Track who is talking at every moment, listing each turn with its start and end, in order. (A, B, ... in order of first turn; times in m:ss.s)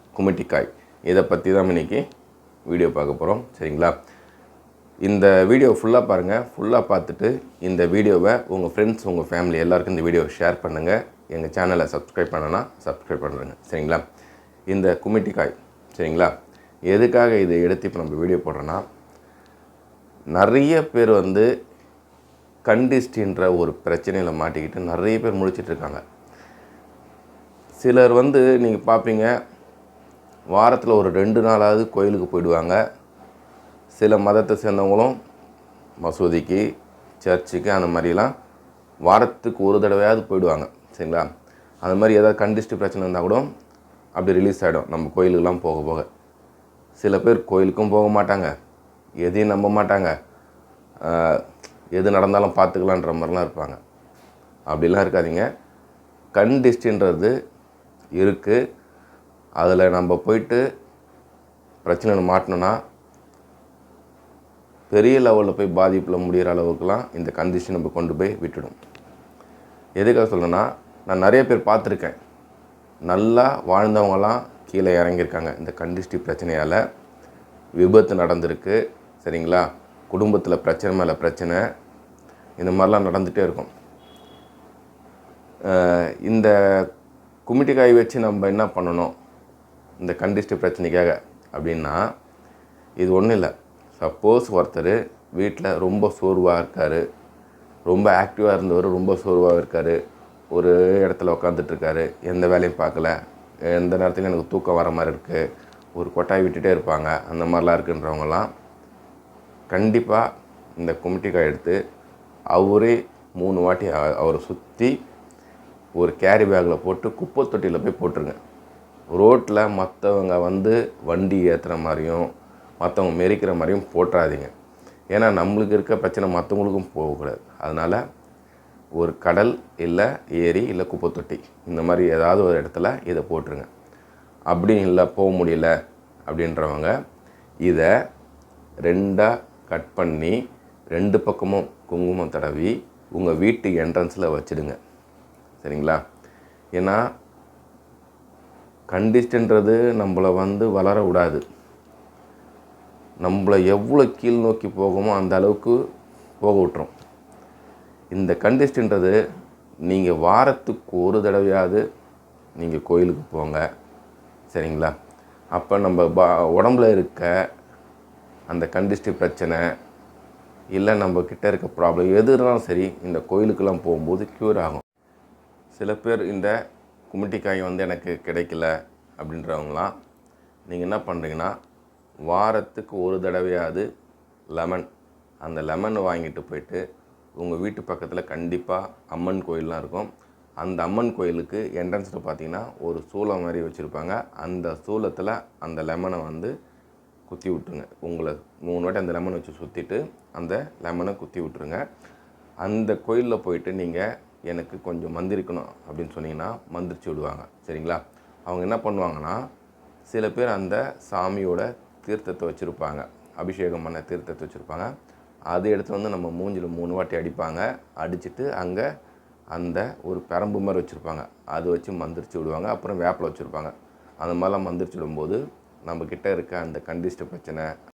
0:00.2-0:02.0 A
0:02.7-0:04.0 A
0:05.0-0:14.0 A
0:14.7-0:16.3 A
0:16.9-0:18.8 A
0:20.3-0:21.5 A
0:22.7-0:26.0 A
0:27.8-0:29.3 A
0:30.5-0:32.8 A
0:33.9-0:35.2 A
0:36.0-0:36.7 A
0:37.2-0:38.3 A
0:39.0-0:41.3 A
0:41.8-0:43.5 A
0:44.2-0:46.1 A
0:47.0-0:48.5 A
0:49.2-0:50.1 A
0:51.0-0:53.8 A
0:54.7-0:55.5 A
0:56.3-0:57.3 A
0:58.2-0:58.6 A
0:59.6-1:00.6 A
1:01.8-1:02.8 A
1:04.9-1:08.8 A
1:10.0-1:12.2 A
1:13.1-1:16.8 A
1:17.8-1:21.6 A
1:22.6-1:23.7 A
1:25.6-1:26.9 A
1:27.5-1:29.1 A
1:30.0-1:32.0 A
1:33.0-1:37.0 A
1:37.9-1:40.0 A
1:40.5-1:43.2 A
1:43.7-1:45.4 A
1:46.0-1:48.5 A
1:49.7-1:50.3 A
1:50.8-1:51.8 A
1:52.5-1:55.0 A
1:56.0-1:58.4 A
1:59.1-2:02.3 A
2:02.8-2:04.5 A
2:05.1-2:08.0 A
2:09.0-2:13.7 A
2:14.5-2:15.7 A
2:16.3-2:16.9 A
2:17.6-2:17.9 A
2:18.8-2:20.4 A
2:20.9-2:24.8 A
2:25.6-2:26.0 A
2:26.8-2:27.0 A
2:28.9-2:31.4 A
2:33.2-2:35.8 A
2:36.4-2:36.9 A
2:38.1-2:39.2 A
2:39.9-2:41.8 A
2:42.6-2:43.6 A
2:44.5-2:44.9 A
2:45.5-2:47.3 A
2:48.5-2:49.6 A
2:50.7-2:54.8 A
2:55.7-2:56.6 A
2:57.1-2:59.9 A
3:00.7-3:01.6 A
3:02.3-3:03.9 A
3:04.5-3:04.9 A
3:05.4-3:06.8 A
3:07.4-3:16.5 A
3:17.3-3:21.8 A
3:22.6-3:29.4 A
3:30.1-3:34.9 A
3:35.5-3:38.9 A
3:39.5-3:47.7 A